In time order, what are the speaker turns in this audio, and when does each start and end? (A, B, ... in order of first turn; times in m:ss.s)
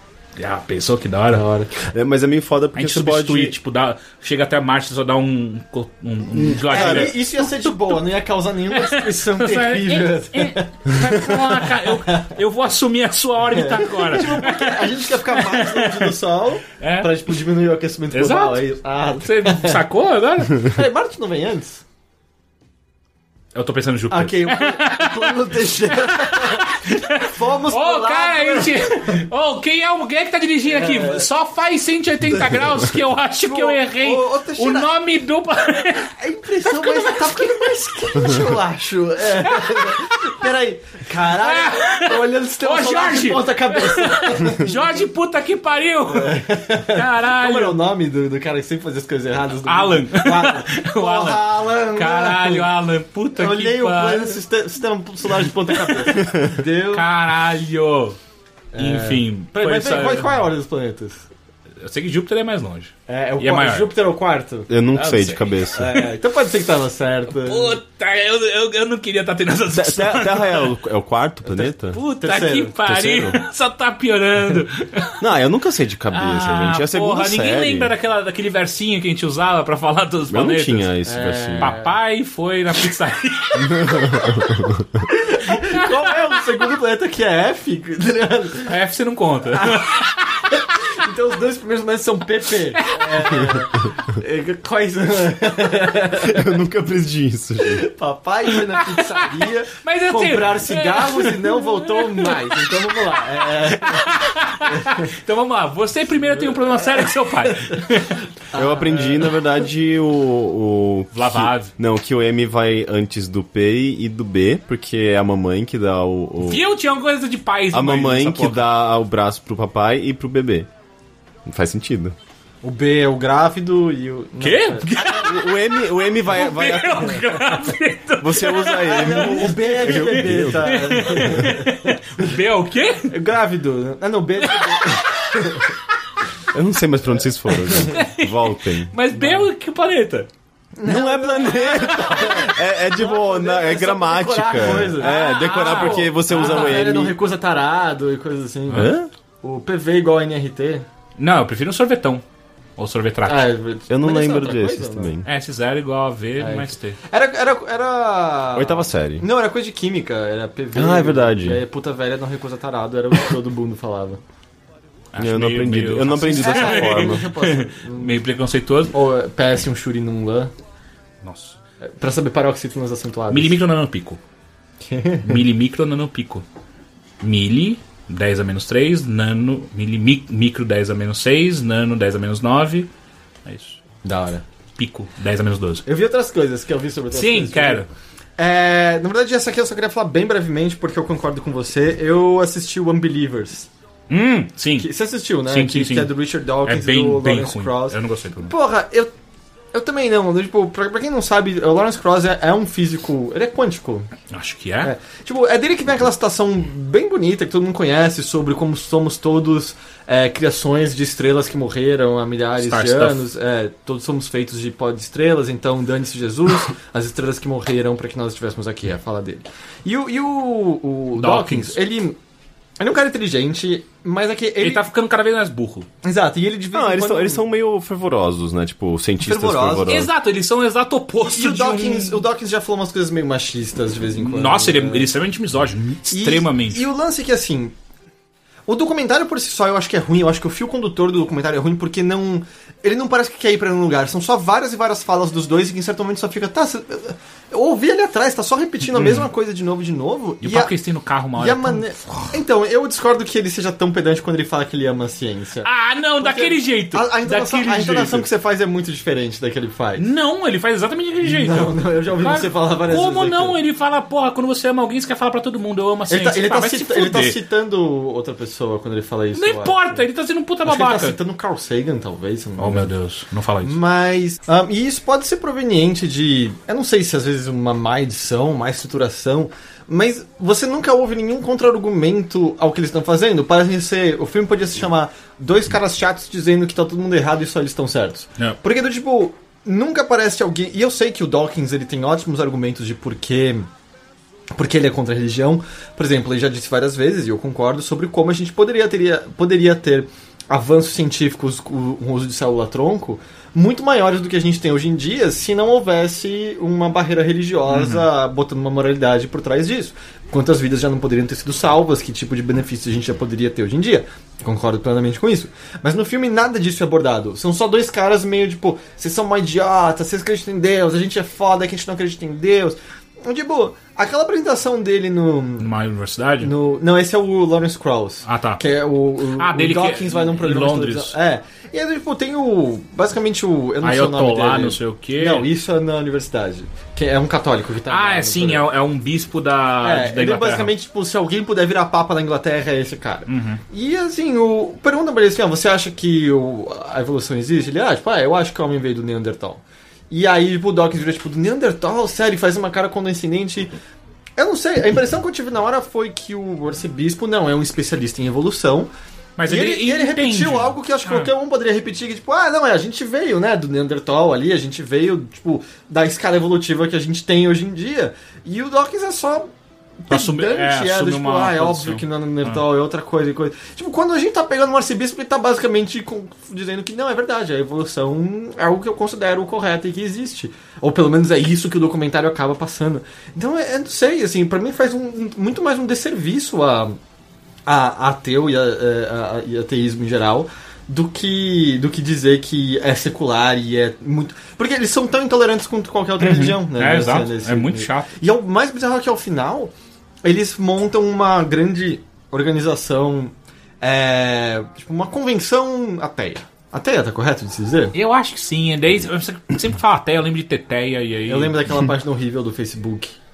0:00.4-0:01.4 A
0:01.3-0:01.7 B
0:01.8-0:03.6 C
0:02.8-0:08.0 A
0:06.4-0:07.1 C
0:06.6-0:12.3 B
0:08.7-0:16.2 A
0:13.5-0:19.8 B
0:16.8-0:17.1 A
0:18.1-0:18.6 A
0:19.2-0:20.7 A
0:20.6-0:21.8 B
0:23.6-0:36.1 A
0:24.1-0:29.2 B
0:30.7-0:31.3 B
0:33.4-0:34.9 B
0:36.2-0:45.0 B
0:36.7-0:37.3 A
0:39.5-0:39.9 A
0:41.4-0:47.8 A
0:46.1-0:52.7 B
0:49.6-0:54.4 A
0:53.3-0:57.1 B
0:55.7-0:56.2 A
0:56.2-0:56.5 C
0:56.9-0:58.2 A
0:58.7-1:01.2 B
0:58.8-1:00.5 A
1:01.8-1:03.9 A
1:03.1-1:07.8 B
1:04.7-1:05.9 C
1:05.0-1:05.4 A
1:07.3-1:10.8 A
1:09.7-1:12.0 C
1:11.5-1:12.8 B
1:11.9-1:15.2 A
1:12.8-1:13.4 C
1:15.2-1:17.9 C
1:16.1-1:20.9 A
1:20.3-1:21.7 C
1:21.0-1:22.0 B
1:21.6-1:24.2 A
1:23.6-1:24.8 C
1:25.1-1:28.8 B
1:25.5-1:26.1 A
1:28.7-1:30.2 A
1:29.5-1:36.6 B
1:32.8-1:33.5 A
1:36.1-1:37.8 C
1:37.6-1:45.0 B
1:38.6-1:48.3 A
1:46.4-1:46.6 B
1:48.5-1:49.3 B
1:48.5-1:56.6 C
1:51.1-1:51.7 A
1:56.4-1:58.6 A
1:57.7-2:00.7 C
2:01.5-2:02.2 C
2:02.6-2:04.9 B
2:04.4-2:13.1 A
2:04.9-2:07.2 C
2:08.2-2:11.5 C
2:08.9-2:11.9 B
2:13.1-2:15.8 B
2:14.5-2:15.1 A
2:16.5-2:18.9 C
2:17.7-2:17.9 B
2:17.9-2:20.3 A
2:19.2-2:19.5 B
2:20.8-2:28.9 B
2:20.8-2:27.2 C
2:21.6-2:22.4 A
2:24.6-2:26.8 A
2:28.7-2:29.1 C
2:29.4-2:30.9 B
2:31.2-2:32.2 A
2:32.8-2:33.5 A
2:33.2-2:35.1 B
2:33.9-2:35.3 C
2:35.2-2:37.0 A
2:36.4-2:44.2 B
2:38.6-2:39.2 C
2:40.8-2:41.6 C
2:45.1-2:48.9 A
2:45.2-2:47.2 C
2:46.3-2:48.2 B
2:48.9-2:50.5 B
2:51.2-2:51.6 A
2:51.8-2:53.6 B
2:53.3-2:54.2 A
2:54.9-2:55.4 B
2:55.2-2:56.4 A
2:57.2-3:02.9 A
3:03.4-3:03.8 A
3:04.0-3:04.4 B
3:04.8-3:05.8 A
3:05.9-3:07.9 B
3:07.1-3:07.9 A
3:08.4-3:13.7 B
3:14.1-3:14.9 A
3:14.8-3:19.1 B
3:15.5-3:16.1 A
3:16.6-3:18.5 A
3:19.7-3:24.1 B
3:24.3-3:24.9 A
3:24.8-3:42.2 B
3:32.6-3:33.2 A
3:41.2-3:41.8 A
3:42.8-3:44.8 B
3:44.6-3:45.9 A
3:46.0-3:47.4 B
3:46.7-3:50.1 C
3:49.2-3:50.0 B
3:49.9-3:52.3 A
3:51.2-3:55.1 B
3:54.2-3:56.8 A
3:56.1-3:57.8 B
3:58.7-4:10.7 B
4:08.9-4:09.3 A
4:10.4-4:12.2 A
4:11.4-4:20.1 B
4:15.6-4:18.3 A
4:20.0-4:27.4 A
4:21.2-4:23.6 B
4:26.1-4:30.0 B
4:29.4-4:31.2 A
4:30.6-4:32.9 B
4:32.6-4:33.8 A
4:33.6-4:53.7 B
4:54.6-5:25.7 B
5:07.7-5:08.1 A
5:25.6-5:26.5 A
5:26.4-5:38.7 B
5:28.2-5:28.6 A
5:29.4-5:31.2 A
5:33.8-5:35.5 A
5:37.9-5:40.7 A
5:39.8-5:53.7 B
5:43.3-5:43.6 A
5:54.4-5:58.9 B
5:59.4-6:01.3 A
5:59.5-6:09.5 B
6:10.1-6:27.0 B
6:10.1-6:12.6 A
6:27.7-6:39.7 B
6:36.2-6:38.1 A
6:40.2-6:48.0 B
6:48.0-6:51.9 A
6:51.3-6:53.2 B